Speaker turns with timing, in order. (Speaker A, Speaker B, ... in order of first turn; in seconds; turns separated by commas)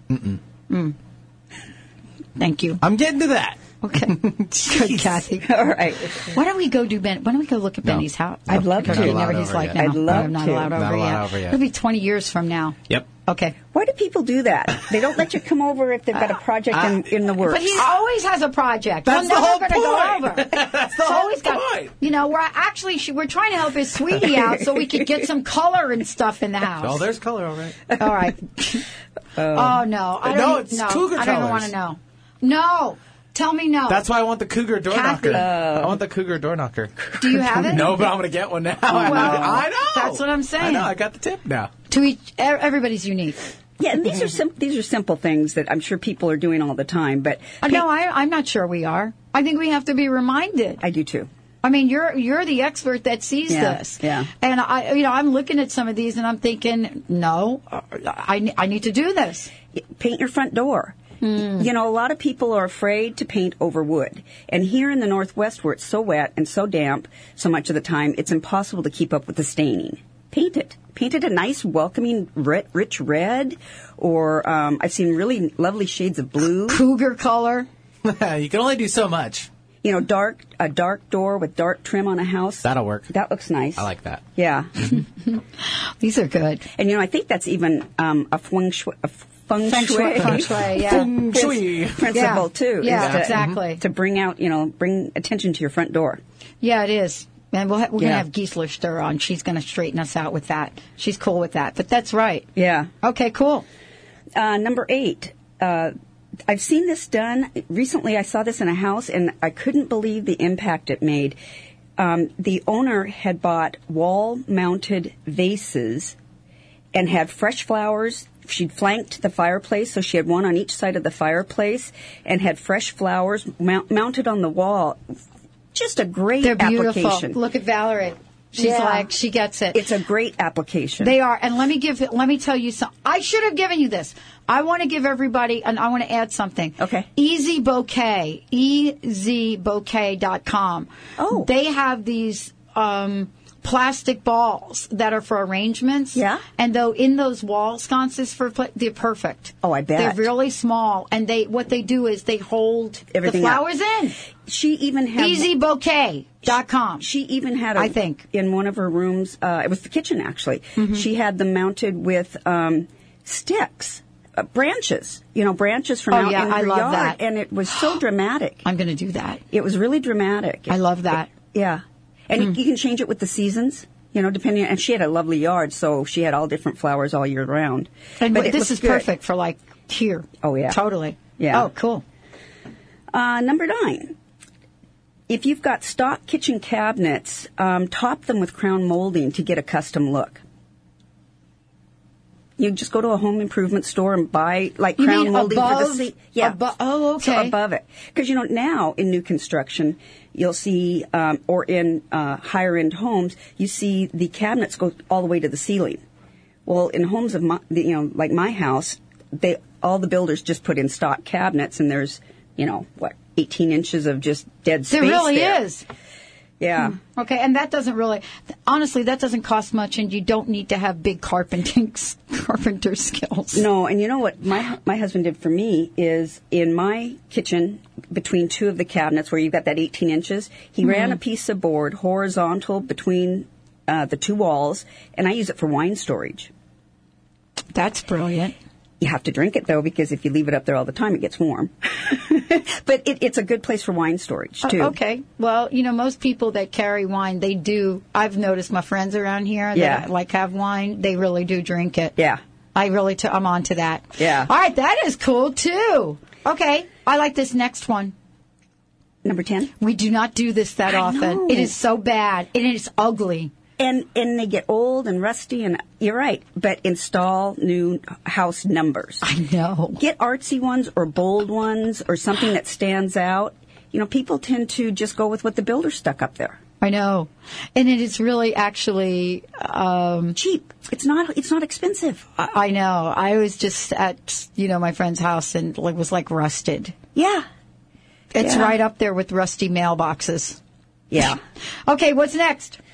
Speaker A: 0.1-0.4, Speaker B: 0.7-1.0, Speaker B: 2.4-2.8, Speaker A: 2.8-5.2, Speaker B: 3.8-5.5, Speaker C: 5.4-6.2, Speaker B: 6.2-13.6, Speaker A: 7.8-11.6, Speaker C: 8.5-10.7, Speaker C: 13.7-17.9, Speaker A: 16.7-17.0, Speaker B: 17.5-27.0, Speaker A: 19.1-21.9, Speaker A: 26.8-27.8, Speaker B: 28.0-28.9, Speaker C: 29.4-29.8, Speaker B: 29.5-34.0, Speaker A: 30.2-31.7, Speaker A: 33.9-41.7, Speaker B: 34.9-35.5, Speaker C: 35.3-36.0, Speaker B: 37.2-38.1, Speaker B: 38.9-40.9, Speaker C: 39.0-39.5, Speaker B: 41.9-43.4, Speaker C: 43.8-47.8, Speaker B: 47.6-50.8, Speaker C: 50.8-51.3, Speaker B: 51.6-59.5, Speaker C: 53.5-54.3, Speaker C: 59.8-76.8, Speaker B: 61.2-61.7, Speaker B: 76.7-77.7, Speaker A: 78.0-79.5, Speaker C: 79.8-84.7, Speaker A: 82.6-83.1, Speaker A: 83.8-84.2, Speaker B: 85.0-86.7, Speaker C: 86.8-96.2, Speaker B: 89.6-91.1, Speaker A: 90.2-93.6, Speaker B: 92.1-93.8, Speaker B: 96.6-102.5, Speaker C: 102.6-102.9, Speaker B: 103.0-103.7, Speaker C: 104.3-105.9, Speaker C: 106.5-111.4, Speaker C: 112.0-116.2, Speaker C: 116.9-125.1, Speaker C: 125.7-127.4, Speaker B: 126.4-129.8, Speaker C: 128.6-129.1, Speaker C: 129.7-131.1, Speaker B: 131.0-154.2, Speaker C: 136.8-137.1, Speaker C: 141.2-141.5, Speaker C: 146.2-146.4, Speaker C: 149.6-150.3, Speaker C: 153.1-153.6, Speaker C: 154.5-155.5, Speaker B: 155.2-157.1, Speaker C: 157.0-168.6, Speaker B: 157.8-158.2, Speaker B: 160.8-161.1, Speaker B: 166.1-167.2, Speaker B: 168.7-169.4, Speaker C: 169.5-170.8, Speaker B: 170.7-171.3, Speaker C: 171.5-179.1, Speaker B: 178.2-182.0, Speaker C: 180.4-180.8, Speaker C: 181.4-181.7, Speaker C: 183.1-184.1, Speaker C: 185.3-190.4, Speaker C: 192.6-196.6, Speaker B: 195.0-197.6, Speaker C: 197.2-206.0, Speaker C: 206.7-215.6, Speaker B: 214.9-215.8, Speaker C: 216.6-217.0, Speaker B: 216.8-223.7, Speaker C: 223.6-236.5, Speaker B: 230.8-231.2, Speaker B: 237.7-238.6, Speaker C: 239.0-245.0, Speaker B: 244.6-252.2, Speaker C: 249.7-250.1, Speaker B: 252.8-258.1, Speaker C: 254.2-254.5, Speaker C: 259.2-259.7, Speaker B: 259.8-263.5, Speaker C: 260.9-261.7, Speaker C: 263.8-269.2, Speaker B: 269.2-270.0, Speaker C: 270.0-276.6, Speaker B: 276.8-280.4, Speaker C: 280.4-282.2, Speaker B: 282.4-287.0, Speaker C: 287.1-287.5, Speaker B: 288.3-290.6, Speaker C: 288.4-288.7, Speaker C: 291.1-291.4, Speaker B: 291.9-292.8